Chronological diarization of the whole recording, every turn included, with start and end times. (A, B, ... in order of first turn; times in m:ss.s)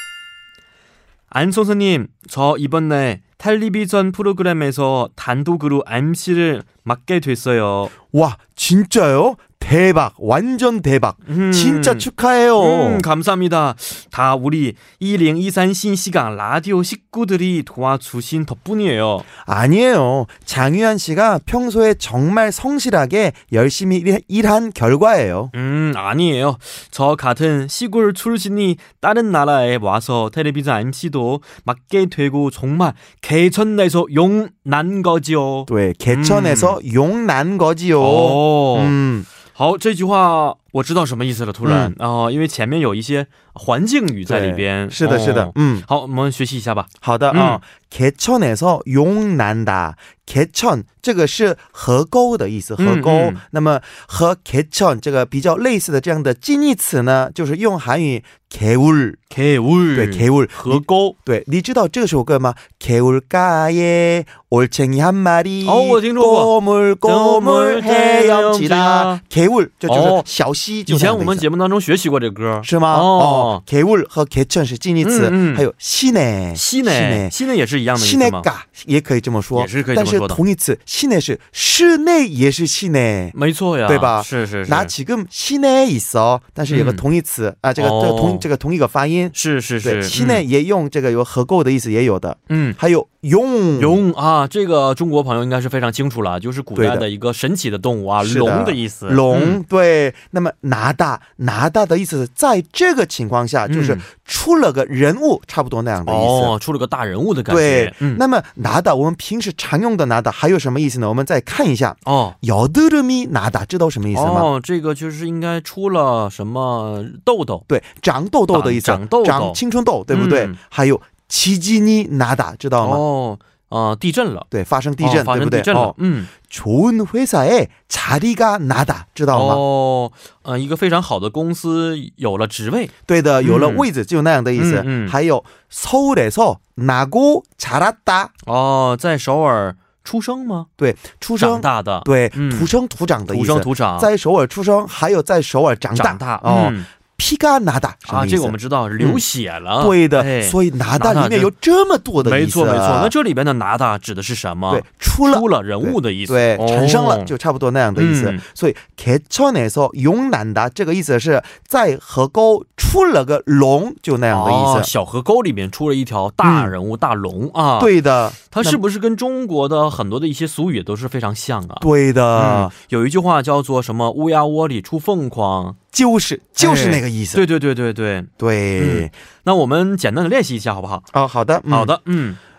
0:01.3-0:07.9 A
0:08.1-0:13.0 B
0:11.3-0:19.2 A
0:19.4-0:25.5 B
0:25.5-0:36.8 A
0:35.7-0:39.3 B
0:38.0-0:39.0 A
0:39.6-0:47.6 A
0:41.6-0:41.9 B
0:44.3-0:45.8 B
0:47.0-0:59.2 B
0:52.8-0:53.4 A
0:59.3-1:01.2 A
0:59.9-1:11.5 B
1:05.6-1:09.2 A
1:09.9-1:10.2 A
1:10.9-1:13.6 A
1:12.6-1:17.4 B
1:15.0-1:15.7 A
1:16.6-1:18.5 A
1:18.0-1:23.4 B
1:19.6-1:20.4 A
1:23.3-1:24.9 A
1:23.9-1:34.0 B
1:26.7-1:27.0 A
1:27.8-1:28.5 A
1:29.3-1:30.4 A
1:32.5-1:32.8 A
1:33.8-1:39.6 A
1:36.8-1:37.1 B
1:38.2-1:46.5 B
1:43.7-1:44.0 A
1:46.0-1:48.2 A
1:47.5-1:54.5 B
1:52.0-1:52.4 A
1:54.1-1:57.6 A
1:57.7-2:03.0 B
1:58.5-1:59.6 A
2:00.1-2:00.6 A
2:02.8-2:04.5 A
2:04.5-2:06.0 B
2:05.0-2:06.3 A
2:06.5-2:09.6 B
2:09.3-2:13.9 A
2:13.1-2:18.3 B
2:14.6-2:15.2 A
2:18.5-2:20.7 A
2:20.8-2:29.2 B
2:21.4-2:22.7 A
2:23.3-2:24.1 A
2:26.0-2:26.9 A
2:28.1-2:31.5 A
2:29.8-2:33.1 B
2:32.2-2:37.3 A
2:34.7-2:44.9 B
2:38.0-2:38.4 A
2:44.3-2:47.9 A
2:46.4-2:46.7 B
2:47.8-2:48.8 B
2:48.5-2:55.8 A
2:51.8-2:52.7 B
2:55.9-2:57.4 B
2:56.6-3:01.0 A
2:58.4-2:59.1 B
3:01.1-3:01.9 B
3:01.7-3:02.4 A